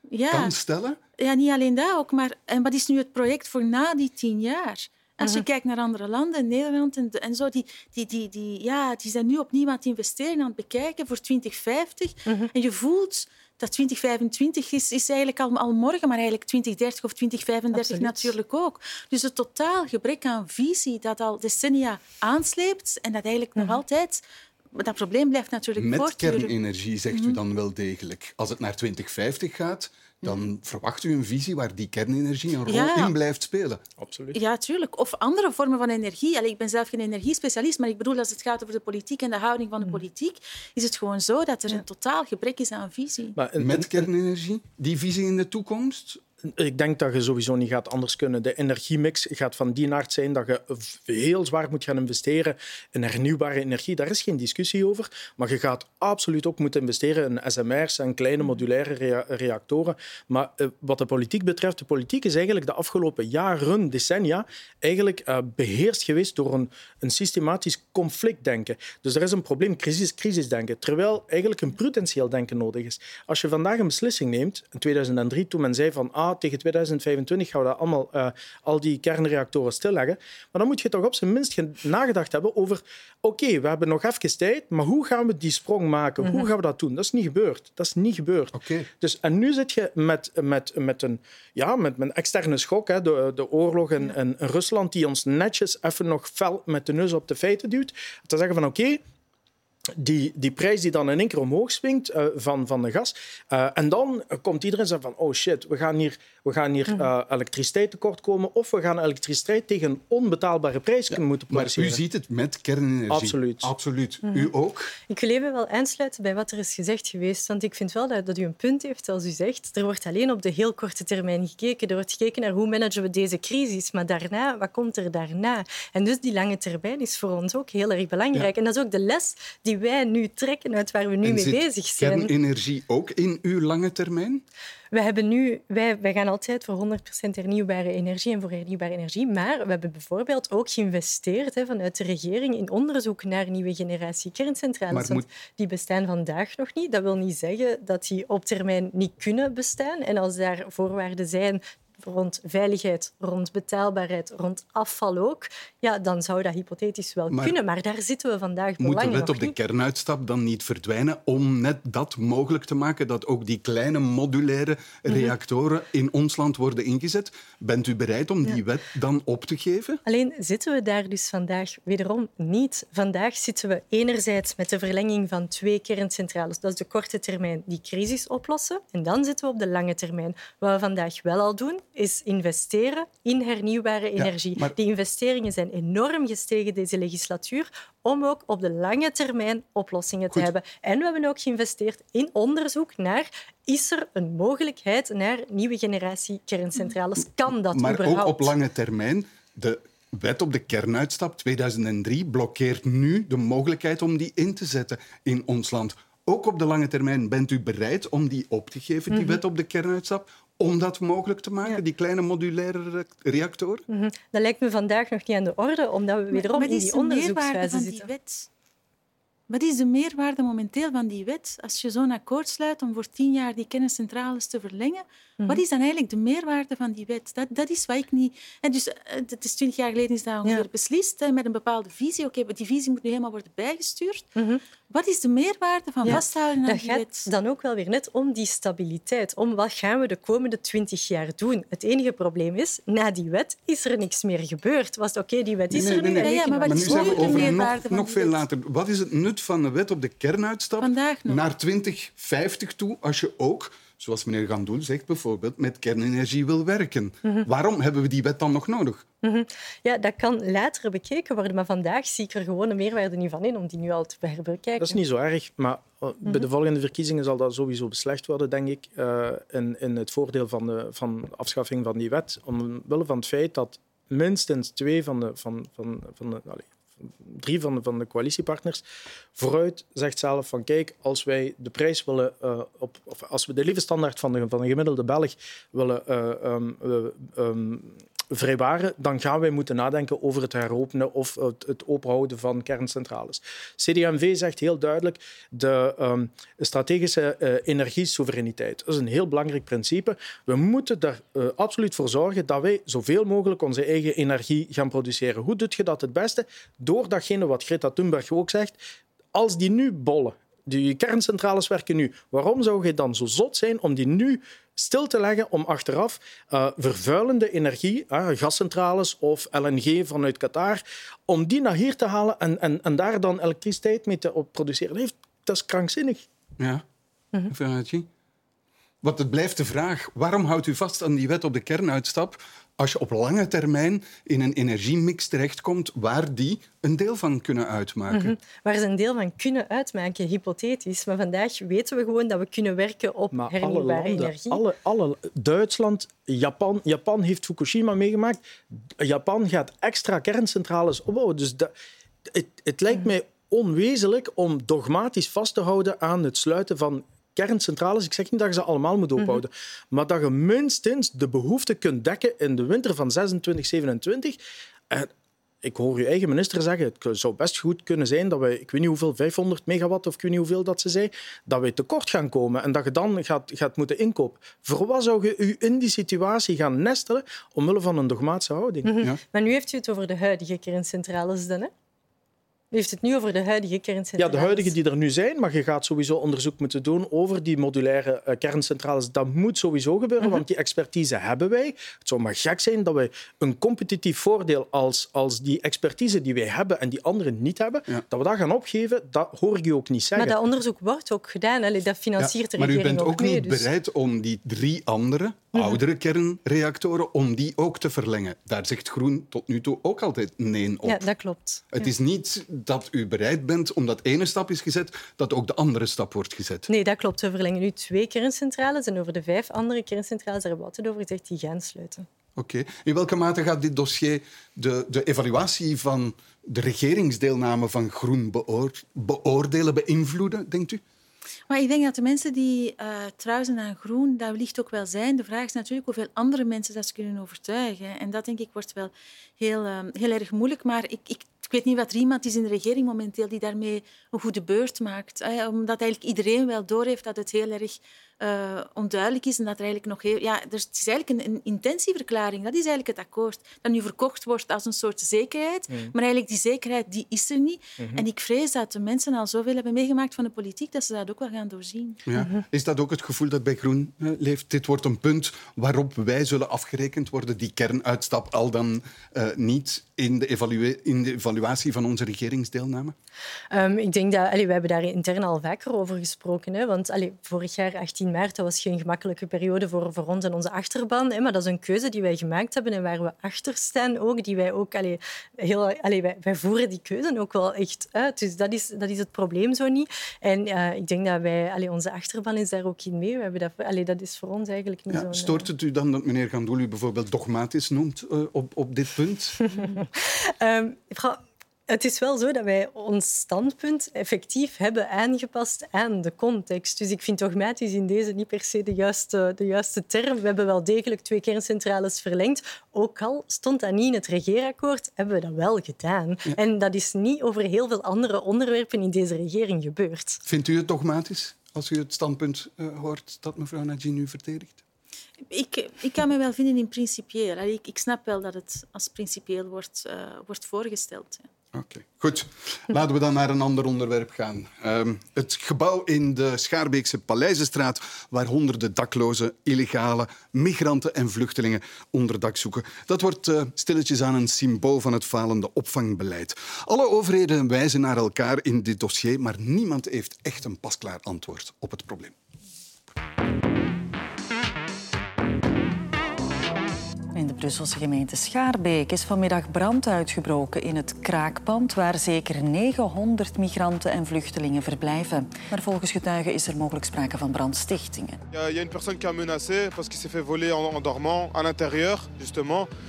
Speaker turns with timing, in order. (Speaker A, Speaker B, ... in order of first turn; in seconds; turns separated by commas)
Speaker A: 0.1-0.6, Speaker B: 0.3-1.0, Speaker A: 1.2-26.5, Speaker C: 17.7-18.3, Speaker B: 25.8-33.8, Speaker A: 27.1-27.4, Speaker A: 32.7-33.1, Speaker D: 34.0-34.4, Speaker A: 34.3-43.4, Speaker D: 43.4-44.1, Speaker B: 43.6-46.2, Speaker D: 46.5-99.0, Speaker B: 88.5-88.9, Speaker D: 100.0-112.0, Speaker B: 111.1-114.9, Speaker D: 113.1-113.7, Speaker C: 114.2-114.5, Speaker C: 115.1-132.3, Speaker B: 131.2-134.4, Speaker C: 134.9-159.5, Speaker B: 144.9-145.2, Speaker B: 157.3-157.6, Speaker B: 158.8-170.0, Speaker C: 170.1-198.5, Speaker B: 184.2-184.8, Speaker B: 197.5-213.8, Speaker C: 209.1-209.4, Speaker C: 213.9-218.1, Speaker A: 216.3-218.5, Speaker A: 219.5-234.3, Speaker C: 234.4-234.6, Speaker A: 234.9-237.3, Speaker C: 236.0-247.7, Speaker B: 245.7-259.0, Speaker A: 246.2-248.4, Speaker A: 250.8-251.4, Speaker C: 259.2-265.0, Speaker D: 264.8-278.8, Speaker D: 279.4-308.8, Speaker D: 309.3-326.2, Speaker B: 326.6-326.8, Speaker B: 327.5-328.1, Speaker B: 329.0-338.4, Speaker C: 338.1-344.6, Speaker D: 343.3-348.4, Speaker D: 349.0-351.7, Speaker D: 352.3-364.4, Speaker D: 365.6-378.9, Speaker C: 378.9-381.7, Speaker C: 382.7-384.7, Speaker D: 384.2-400.4, Speaker C: 400.2-403.7, Speaker B: 402.2-411.0, Speaker C: 405.5-405.8, Speaker C: 410.9-411.9, Speaker B: 411.7-416.7, Speaker C: 416.7-422.1, Speaker B: 422.4-430.8, Speaker A: 431.5-462.0, Speaker D: 457.8-458.0, Speaker B: 462.1-472.9, Speaker C: 462.2-462.4, Speaker C: 473.5-495.5, Speaker B: 494.9-499.6, Speaker C: 499.5-520.2, Speaker B: 520.2-524.6, Speaker A: 525.3-531.3, Speaker B: 531.5-552.1, Speaker E: 557.1-568.2, Speaker F: 568.3-572.7